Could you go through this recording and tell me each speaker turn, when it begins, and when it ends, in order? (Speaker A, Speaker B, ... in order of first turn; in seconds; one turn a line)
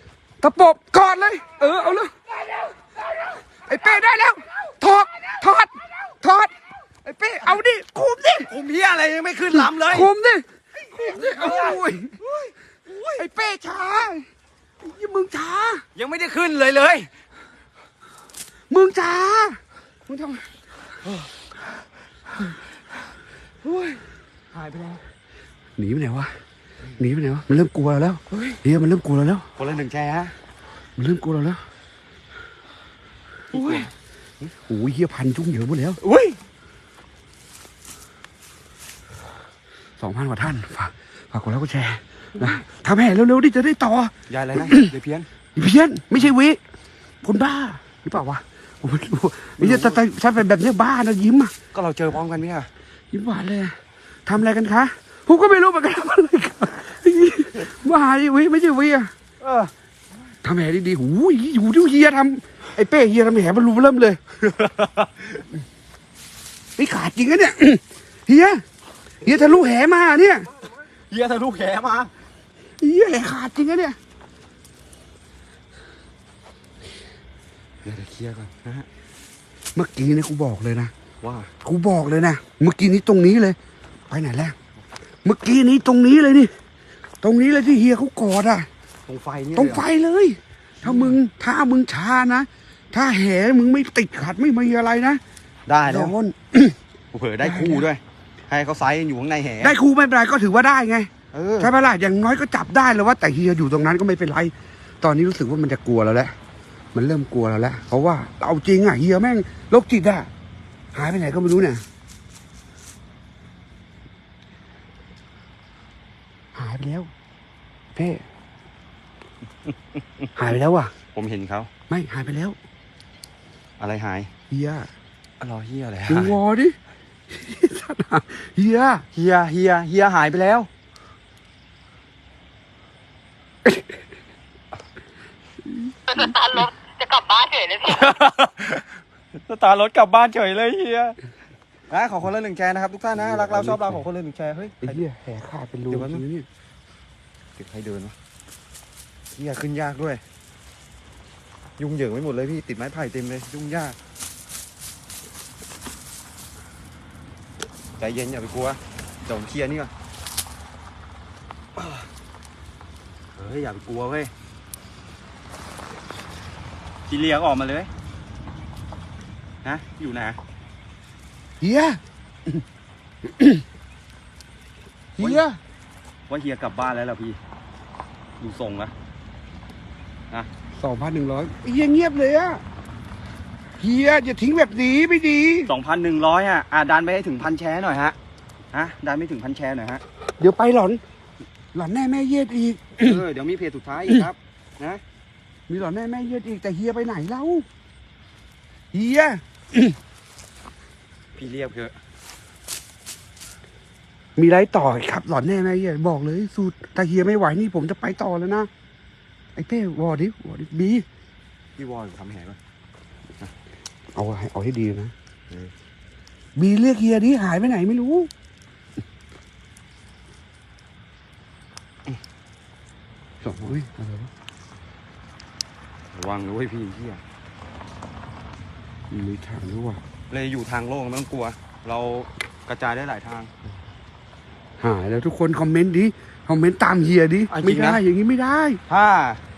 Speaker A: 0.4-2.1
Speaker A: 3.6-6.5
Speaker A: 7.0-8.5
Speaker B: 8.4-10.1
Speaker A: 9.5-12.2
Speaker B: 10.9-13.2
Speaker A: 13.2-14.3
Speaker A: 14.8-15.8
Speaker B: 15.9-17.1
Speaker A: 18.7-20.5
Speaker B: 23.6-24.0
Speaker B: 24.5-25.0
Speaker A: 25.8-26.4
Speaker A: 27.0-29.5
Speaker B: 28.3-28.6
Speaker B: 29.6-30.3
Speaker A: 31.0-31.6
Speaker B: 33.5-33.9
Speaker A: 33.5-33.8
Speaker A: 34.5-36.0
Speaker B: 36.0-36.4
Speaker A: 40.0-44.9
Speaker B: 44.3-45.3
Speaker A: 45.5-46.6
Speaker A: 47.2-51.5
Speaker B: 49.6-50.0
Speaker B: 51.7-52.7
Speaker A: 53.1-59.1
Speaker B: 59.4-59.7
Speaker A: 60.4-64.2
Speaker B: 64.4-65.4
Speaker A: 66.8-68.6
Speaker A: 69.2-70.5
Speaker B: 71.1-72.1
Speaker A: 72.8-74.0
Speaker B: 77.8-78.9
Speaker A: 79.8-80.9
Speaker B: 81.2-81.5
Speaker A: 81.6-83.6
Speaker A: 84.1-84.6
Speaker A: 85.2-86.5
Speaker A: 87.2-88.7
Speaker B: 89.1-89.9
Speaker A: 89.5-95.2
Speaker B: 90.8-91.2
Speaker B: 95.7-96.1
Speaker A: 95.8-96.8
Speaker B: 97.1-99.8
Speaker A: 97.4-97.9
Speaker A: 99.6-106.3
Speaker B: 101.3-101.7
Speaker A: 106.9-110.3
Speaker A: 110.9-111.8
Speaker A: 116.5-117.1
Speaker A: 118.0-118.2
Speaker A: 120.4-120.9
Speaker B: 121.1-121.7
Speaker A: 121.9-122.6
Speaker B: 123.8-124.3
Speaker A: 124.5-124.9
Speaker B: 125.4-126.4
Speaker A: 126.1-126.8
Speaker A: 127.3-129.1
Speaker B: 129.1-130.7
Speaker A: 133.7-134.0
Speaker A: 135.6-136.3
Speaker C: 136.1-138.2
Speaker B: 137.9-138.8
Speaker B: 139.4-141.2
Speaker B: 141.9-145.0
Speaker A: 143.2-144.0
Speaker A: 144.8-146.5
Speaker B: 145.9-146.2
Speaker B: 147.6-148.2
Speaker B: 149.3-150.2
Speaker B: 151.8-154.0
Speaker B: 158.0-159.9
Speaker B: 161.8-162.1
Speaker B: 163.4-164.3
Speaker B: 167.1-167.9
Speaker B: 169.6-170.4
Speaker A: 171.6-172.6
Speaker A: 173.2-173.7
Speaker A: 175.2-175.6
Speaker B: 175.2-175.4
Speaker B: 176.3-177.4
Speaker B: 178.4-178.9
Speaker A: 180.8-182.6
Speaker A: 183.8-185.7
Speaker B: 185.7-188.2
Speaker B: 188.7-190.0
Speaker A: 190.4-191.0
Speaker A: 191.7-193.2
Speaker B: 193.0-195.0
Speaker A: 195.7-197.7
Speaker A: 198.9-200.0
Speaker B: 201.4-202.0
Speaker A: 204.4-208.7
Speaker A: 209.6-211.1
Speaker B: 211.8-212.6
Speaker A: 214.2-215.1
Speaker A: 216.6-218.3
Speaker A: 223.4-224.3
Speaker B: 226.1-227.2
Speaker A: 229.1-230.0
Speaker B: 230.3-233.5
Speaker A: 234.8-238.8
Speaker B: 237.5-238.0
Speaker B: 238.9-239.4